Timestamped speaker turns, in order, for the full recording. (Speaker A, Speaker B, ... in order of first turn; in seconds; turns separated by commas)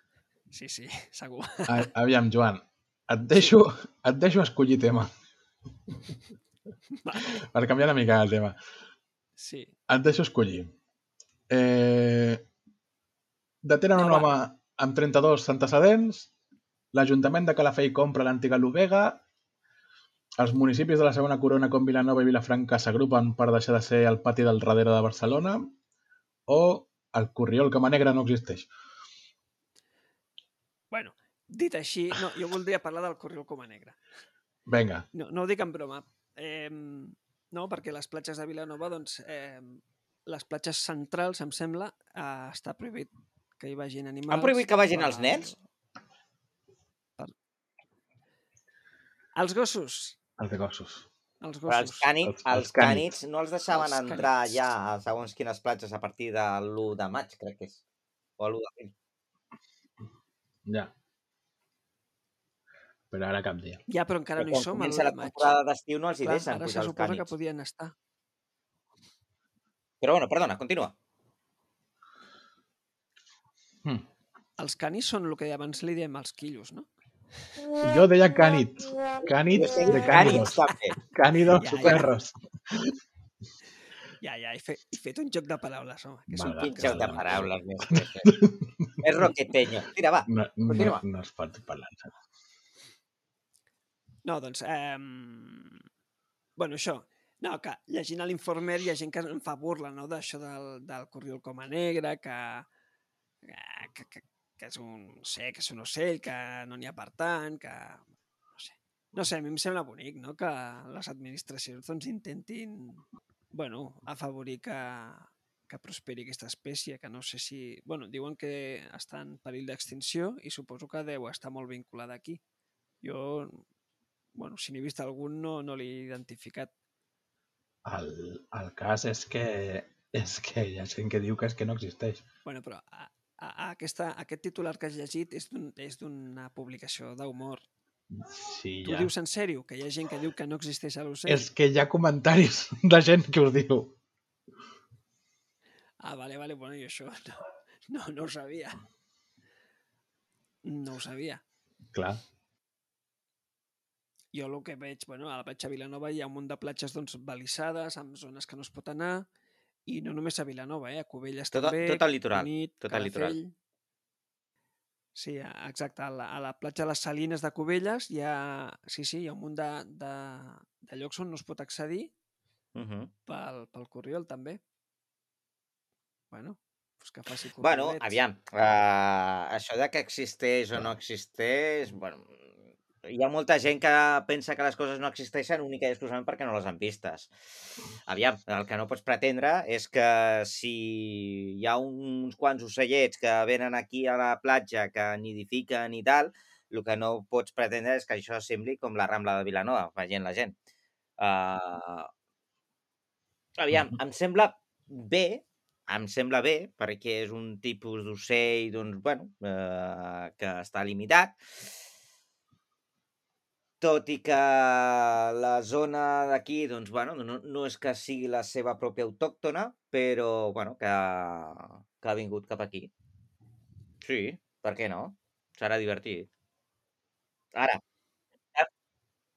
Speaker A: 0.5-1.9, Speaker B: 1.7-5.1, Speaker A: 3.3-3.6, Speaker A: 7.0-7.5, Speaker B: 7.4-8.6, Speaker A: 9.4-9.7, Speaker B: 9.9-10.7, Speaker B: 11.5-12.4, Speaker B: 13.6-16.3, Speaker A: 13.9-14.3, Speaker B: 16.9-19.2, Speaker B: 20.4-25.7, Speaker B: 26.5-28.7, Speaker A: 30.9-34.0, Speaker B: 34.7-35.1, Speaker A: 35.1-45.6, Speaker C: 44.3-45.5, Speaker A: 49.3-50.2, Speaker B: 50.4-51.1, Speaker A: 51.4-52.1, Speaker C: 51.7-57.8, Speaker B: 52.2-53.1, Speaker A: 53.7-54.6, Speaker C: 58.4-58.9, Speaker B: 60.6-60.9, Speaker B: 63.1-63.8, Speaker A: 63.9-65.6, Speaker C: 64.4-67.3, Speaker A: 66.2-67.9, Speaker C: 70.0-70.9, Speaker A: 74.6-76.9, Speaker B: 77.8-83.0, Speaker C: 79.5-81.0, Speaker A: 80.1-80.5, Speaker A: 81.5-82.1, Speaker A: 84.2-87.4, Speaker B: 86.3-89.3, Speaker C: 86.5-88.4, Speaker C: 89.0-91.0, Speaker B: 90.3-92.1, Speaker A: 94.2-95.8, Speaker A: 96.6-102.7, Speaker A: 103.4-122.4, Speaker A: 123.0-123.6, Speaker A: 124.3-126.7, Speaker B: 127.8-132.2, Speaker A: 132.4-137.7, Speaker B: 138.1-139.1, Speaker A: 138.8-141.5, Speaker B: 141.3-144.0, Speaker A: 146.0-148.8, Speaker A: 150.6-151.4, Speaker B: 151.9-152.2, Speaker A: 154.3-159.3, Speaker A: 159.9-163.5, Speaker C: 161.5-163.4, Speaker A: 165.1-172.1, Speaker C: 172.7-173.1, Speaker A: 173.3-174.6, Speaker A: 176.3-178.2, Speaker C: 177.6-182.4, Speaker B: 180.7-181.0, Speaker C: 183.0-187.3, Speaker C: 188.1-200.5, Speaker C: 201.2-202.1, Speaker C: 203.6-211.7, Speaker C: 213.8-222.9, Speaker C: 224.0-226.3, Speaker C: 227.5-227.8